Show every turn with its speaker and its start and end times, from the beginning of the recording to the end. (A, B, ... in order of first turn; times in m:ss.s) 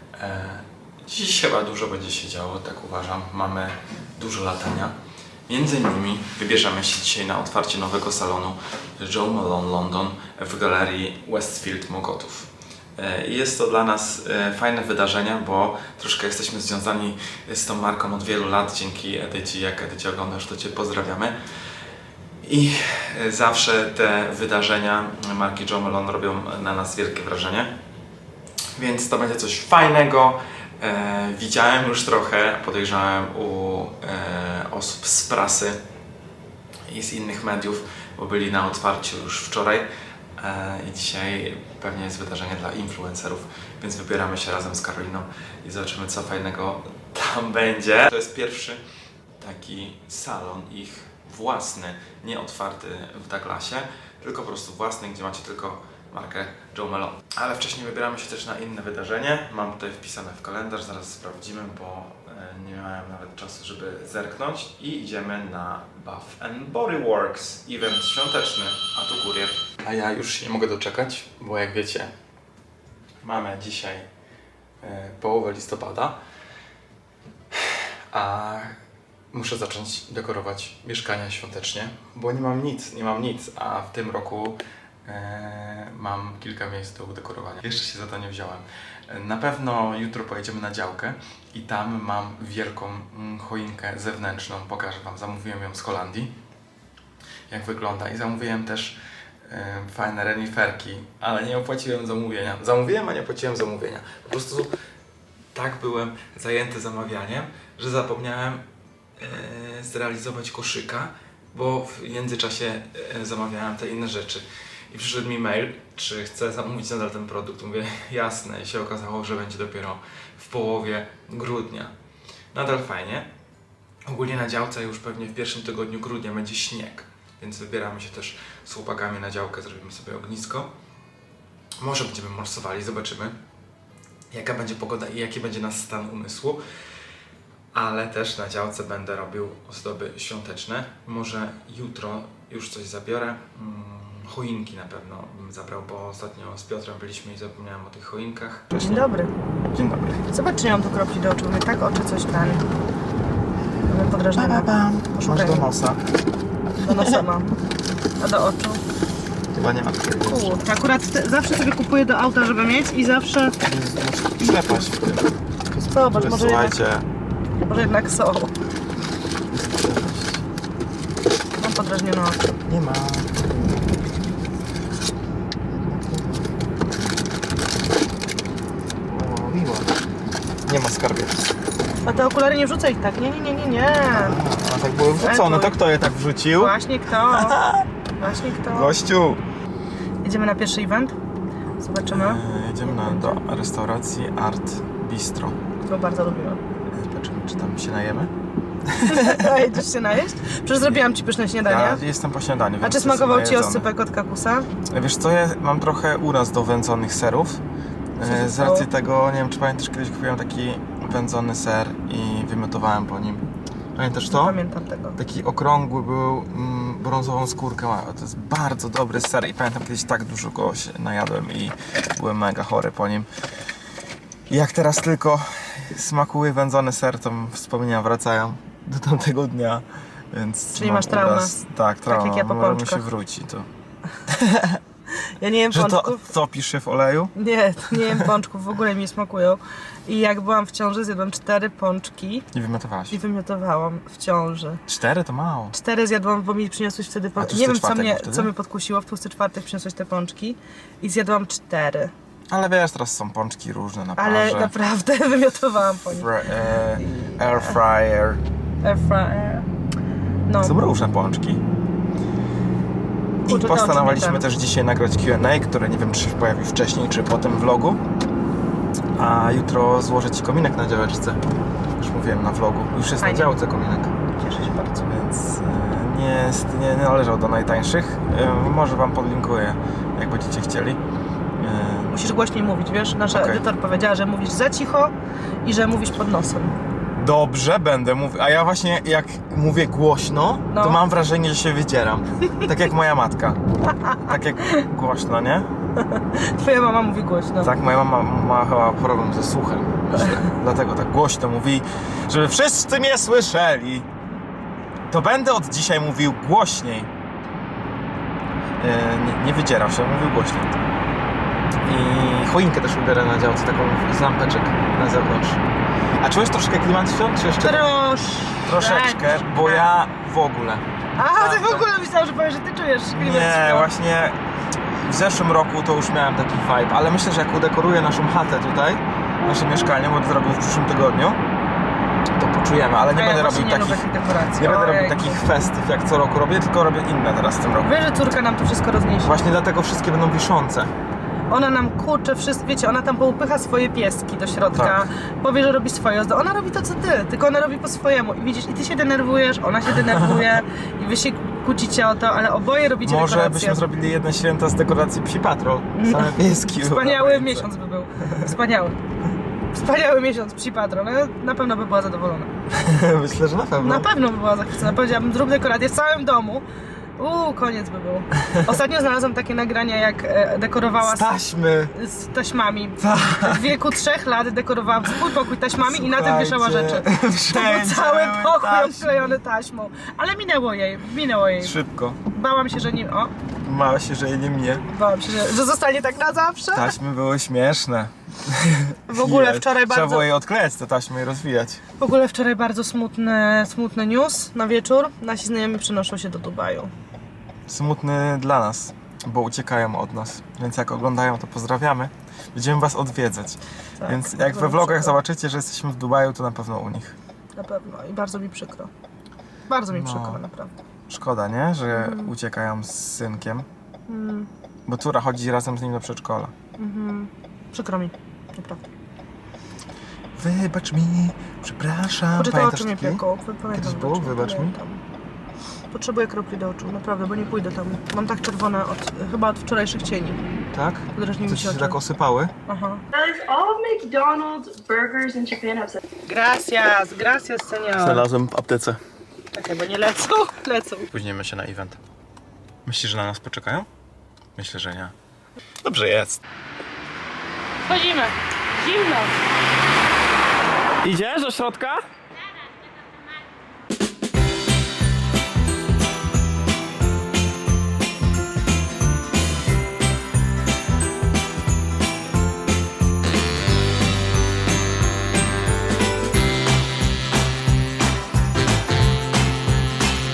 0:00.2-0:04.9 A
0:05.5-0:21.3 A
0:22.4-0:27.7 A
0:28.8-0:35.8 A
0:36.9-0:39.9 A
0:40.4-0:48.8 A
0:49.4-1:12.1 A
1:13.2-1:14.0 A
1:14.8-1:16.2 A
1:17.5-1:18.8 A
1:19.3-1:36.3 A
1:37.5-1:44.7 A
1:45.5-1:48.6 A
1:49.2-2:01.9 A
2:02.5-2:03.3 A
2:04.0-2:10.7 A
2:11.8-2:13.3 A
2:14.3-2:16.6 A
2:17.7-2:29.1 A
2:28.8-2:29.3 B
2:29.7-2:30.2 A
2:30.3-2:32.6 B
2:33.9-2:35.7 B
2:34.4-2:36.0 A
2:36.8-2:37.6 B
2:36.9-2:37.2 A
2:38.2-2:38.8 B
2:39.5-2:40.6 A
2:40.2-2:43.6 B
2:43.6-2:47.1 A
2:45.8-2:46.8 B
2:47.6-2:48.5 B
2:49.5-2:50.4 A
2:51.6-2:52.5 B
2:52.7-2:53.8 A
2:55.7-2:56.8 A
2:59.1-2:59.9 A
3:00.7-3:01.4 A
3:02.0-3:04.4 B
3:04.1-3:06.8 A
3:05.2-3:05.8 B
3:06.6-3:07.6 B
3:07.3-3:07.8 A
3:08.2-3:08.9 B
3:08.7-3:09.4 A
3:10.2-3:11.2 B
3:11.8-3:13.4 B
3:12.1-3:15.6 A
3:15.8-3:16.6 B
3:16.9-3:18.3 A
3:18.9-3:19.5 A
3:19.0-3:22.0 B
3:21.6-3:23.9 A
3:22.8-3:24.7 B
3:24.9-3:27.6 A
3:28.2-3:33.4 A
3:28.2-3:28.9 B
3:34.0-3:34.6 A
3:34.3-3:35.2 B
3:35.2-3:43.3 A
3:44.5-3:53.7 A
3:50.8-3:51.6 B
3:52.1-3:53.0 B
3:54.3-3:54.8 A
3:55.4-3:56.2 B
3:55.7-3:57.3 A
3:57.4-4:02.4 B
3:57.9-3:58.2 A
4:02.5-4:03.2 A
4:03.1-4:04.8 B
4:04.9-4:05.8 A
4:05.7-4:12.1 B
4:07.4-4:08.5 A
4:12.5-4:14.7 A
4:14.2-4:16.3 B
4:16.1-4:18.4 A
4:17.0-4:17.8 B
4:18.8-4:19.7 B
4:20.5-4:20.8 B
4:20.6-4:21.6 A
4:23.5-4:28.0 A
4:23.5-4:24.4 B
4:29.2-4:31.4 A
4:32.0-4:34.1 A
4:33.2-4:33.6 B
4:34.4-4:35.1 B
4:35.0-4:41.0 A
4:41.6-4:42.1 A
4:42.1-4:45.1 B
4:43.3-4:43.6 A
4:45.6-4:46.8 B
4:47.2-4:53.6 A
4:50.7-4:51.0 B
4:54.0-4:54.3 B
4:54.2-4:55.7 A
4:56.0-4:57.7 B
4:57.6-5:04.1 A
5:05.1-5:07.1 A
5:08.8-5:10.8 A
5:11.8-5:15.6 A
5:16.2-5:17.8 A
5:17.6-5:19.9 B
5:18.6-5:20.8 A
5:21.2-5:23.9 B
5:21.3-5:21.9 A
5:23.1-5:24.4 A
5:25.0-5:31.4 A
5:32.3-5:34.0 A
5:33.1-5:35.4 B
5:34.6-5:37.9 A
5:37.8-5:39.4 B
5:39.2-5:40.9 A
5:41.5-5:53.8 B
5:44.7-5:45.1 A
5:50.2-5:50.4 A
5:53.0-5:57.7 A
5:56.0-5:59.0 B
5:59.7-6:02.5 B
6:02.7-6:04.1 A
6:03.8-6:06.6 B
6:07.2-6:11.4 B
6:11.0-6:11.9 A
6:11.9-6:21.7 B
6:13.0-6:13.6 A
6:15.9-6:19.4 A
6:21.6-6:22.2 A
6:22.3-6:23.3 B
6:23.6-6:24.8 A
6:24.9-6:27.0 B
6:26.7-6:31.8 A
6:29.1-6:30.3 B
6:32.0-6:36.9 B
6:37.7-6:47.2 A
6:44.0-6:45.2 B
6:47.6-6:48.9 B
6:49.7-6:50.7 B
6:49.9-6:50.4 A
6:51.1-6:53.7 A
6:51.9-6:52.3 B
6:54.1-6:54.5 B
6:54.9-6:56.5 A
6:56.8-6:58.8 B
7:00.4-7:04.7 A
7:02.4-7:05.0 B
7:05.9-7:10.4 B
7:10.7-7:12.5 A
7:11.2-7:12.0 B
7:12.7-7:13.0 B
7:13.1-7:16.0 C
7:16.3-7:18.2 B
7:18.0-7:19.0 A
7:19.5-7:21.1 B
7:21.1-7:22.0 A
7:22.9-7:23.9 A
7:24.6-7:25.1 A
7:25.8-7:26.4 A
7:27.9-7:29.3 B
7:31.0-7:32.0 A